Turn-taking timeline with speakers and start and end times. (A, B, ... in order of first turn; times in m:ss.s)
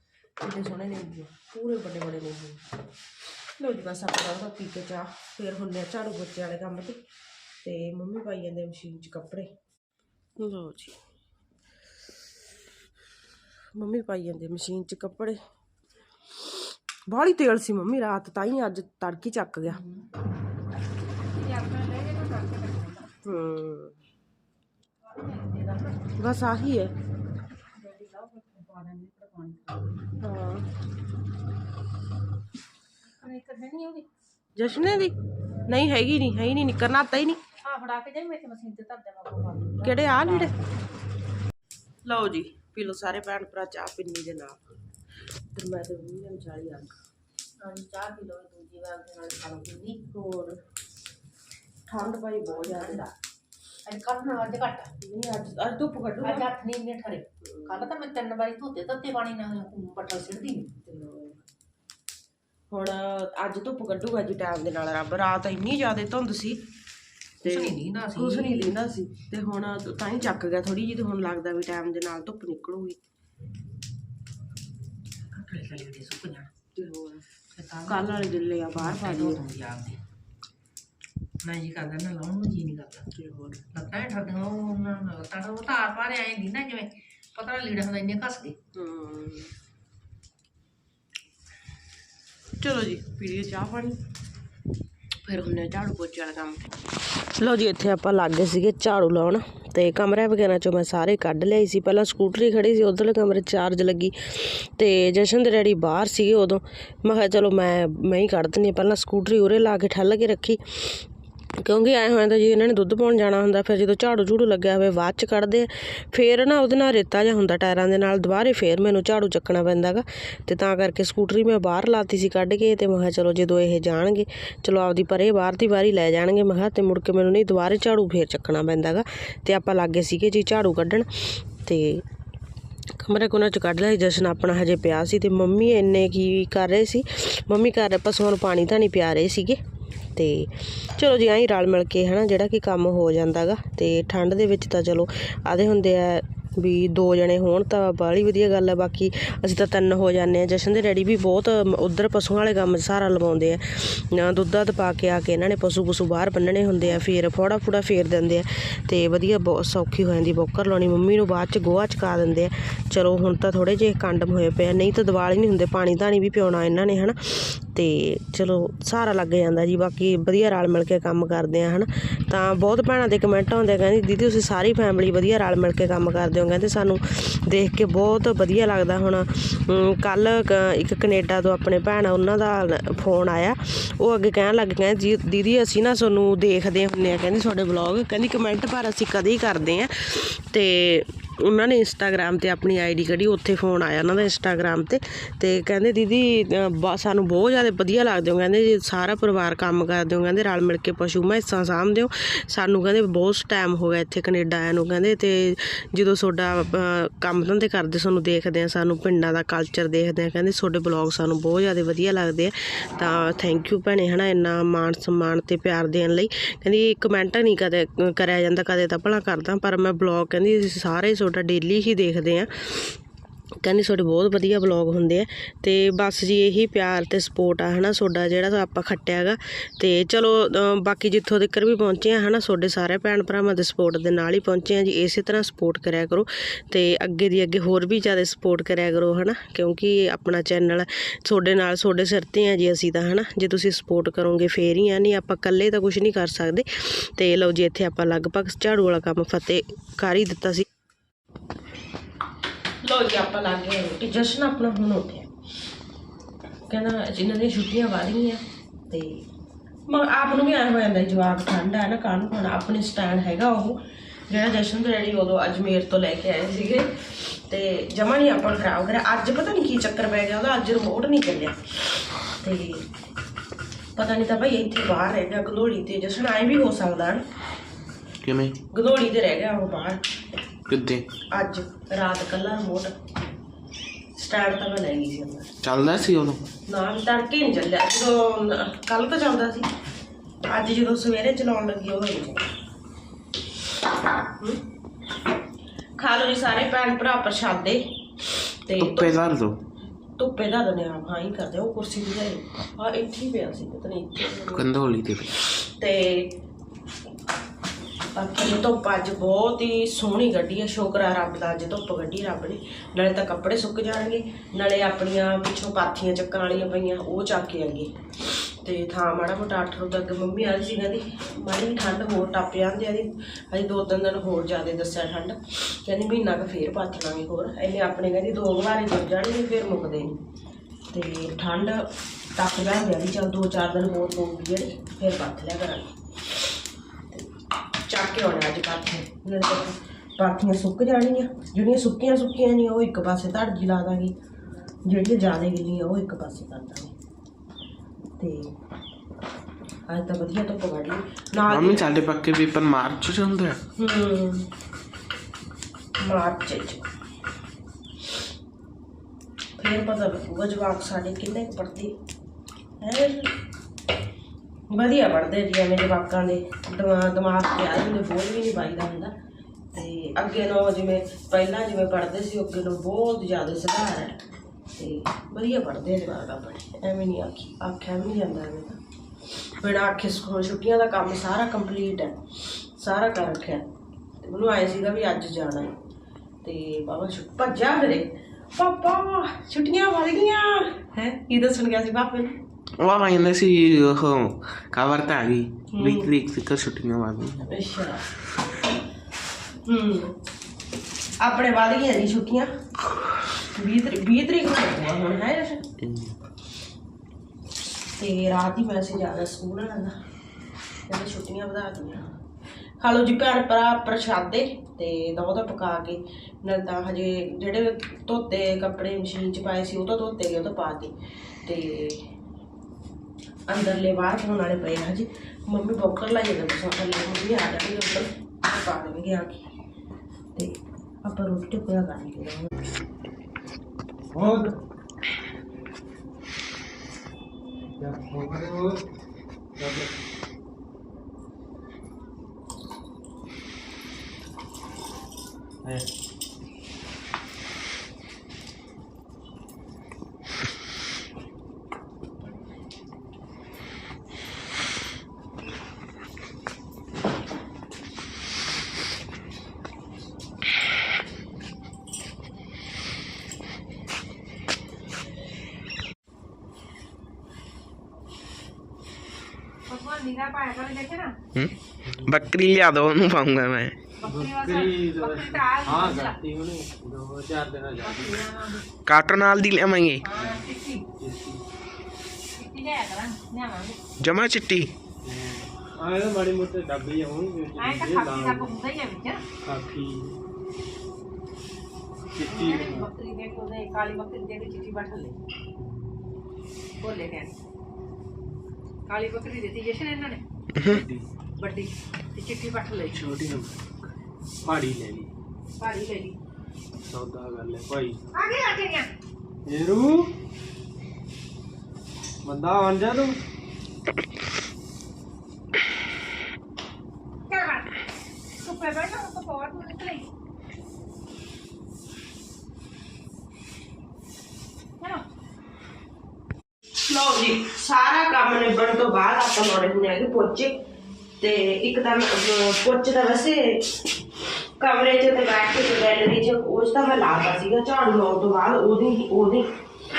0:00.4-0:02.6 A
0:03.6-0:07.0 A
0:07.6-0:09.5 A
0:10.4-0:11.0 A
0:13.7-0:15.4 A
0:17.1-0:19.8 A
0:19.7-0:20.0 B
0:21.3-0:23.1 B
0:23.2-0:24.0 A
0:25.0-0:26.1 B
0:26.2-0:26.9 A
0:27.7-0:30.1 B
0:30.2-0:30.6 A
0:33.0-0:34.1 B
0:34.6-0:35.1 A
0:35.7-0:37.4 A
0:37.6-0:40.6 B
0:39.8-0:40.5 A
0:42.0-0:44.6 A
0:45.5-0:47.0 A
0:47.6-0:50.1 B
0:50.1-0:50.6 A
0:51.9-0:53.1 A
0:52.0-0:53.1 B
0:53.8-0:54.9 B
0:55.0-0:56.5 A
0:56.2-1:00.8 B
0:57.4-0:57.7 A
1:00.8-1:01.4 A
1:02.7-1:06.6 A
1:07.4-1:08.7 B
1:07.4-1:13.0 A
1:15.3-1:16.9 B
1:16.7-1:17.2 A
1:17.5-1:20.0 B
1:17.8-1:19.4 A
1:21.4-1:23.1 B
1:23.1-1:23.6 A
1:23.7-1:28.6 B
1:28.7-1:29.5 A
1:32.6-1:34.0 A
1:35.3-1:36.6 A
1:37.4-1:51.0 A
1:51.6-2:12.0 A
2:13.0-2:19.6 A
2:20.1-3:42.9 A
3:43.6-4:10.7 A
4:12.8-4:15.3 A
4:16.7-4:19.2 A
4:19.9-4:31.6 A
4:32.4-4:32.9 A
4:34.0-4:37.2 A
4:38.2-4:38.6 C
4:38.7-4:40.0 A
4:40.7-4:41.1 C
4:41.3-4:43.0 A
4:44.2-4:45.5 A
4:45.6-4:46.5 C
4:46.7-4:49.7 A
4:50.4-4:52.5 A
4:56.0-4:58.0 A
4:58.6-4:59.1 A
4:58.8-4:59.6 C
5:00.2-5:04.7 A
5:04.5-5:05.4 C
5:05.8-5:06.4 A
5:08.1-5:30.2 A
5:30.9-5:35.9 A
5:37.8-5:44.1 A
5:44.8-5:46.9 A
5:48.2-5:48.5 A
5:49.9-5:51.8 A
5:51.4-5:53.6 C
5:53.8-5:54.5 A
5:56.0-5:56.8 A
5:59.6-6:02.0 A
6:02.8-6:03.3 A
6:04.7-6:09.1 A
6:09.7-6:14.2 A
6:14.8-6:18.8 A
6:19.6-6:23.6 A
6:24.2-6:25.7 A
6:26.4-6:32.4 A
6:32.8-6:37.5 C
6:35.7-6:36.1 A
6:37.4-6:38.0 A
6:39.6-6:40.2 A
6:41.2-6:42.5 A
6:43.6-6:45.7 A
6:45.8-6:46.1 C
6:48.0-6:50.0 A
6:50.9-6:52.1 A
6:52.8-7:02.1 A
7:03.5-7:09.4 A
7:10.4-7:12.5 A
7:14.1-7:14.6 D
7:17.8-7:18.8 D
7:19.6-7:19.9 D
7:49.7-7:51.2 B
7:51.3-7:53.8 C
7:54.0-7:56.2 B
7:54.0-7:58.2 D
7:57.8-7:58.6 B
7:58.8-8:00.0 C
8:00.0-8:00.8 B
8:00.2-8:00.4 D
8:01.0-8:01.4 D
8:02.4-8:03.8 B
8:04.0-8:04.7 C
8:05.0-8:08.5 D
8:07.6-8:09.2 B
8:09.4-8:10.2 D
8:12.1-8:12.9 D
8:12.3-8:15.2 B
8:16.8-8:17.3 B
8:18.9-8:20.2 B
8:20.5-8:20.8 C
8:20.6-8:21.1 D
8:21.4-8:23.0 B
8:22.9-8:23.6 D
8:24.4-8:25.1 D
8:25.6-8:26.2 B
8:26.9-8:28.0 D
8:28.1-8:28.9 B
8:29.4-8:30.1 D
8:32.2-8:33.2 D
8:37.3-8:37.6 B
8:38.4-8:40.1 B
8:46.9-8:50.6 A
8:51.2-8:53.8 A
8:54.6-8:59.5 A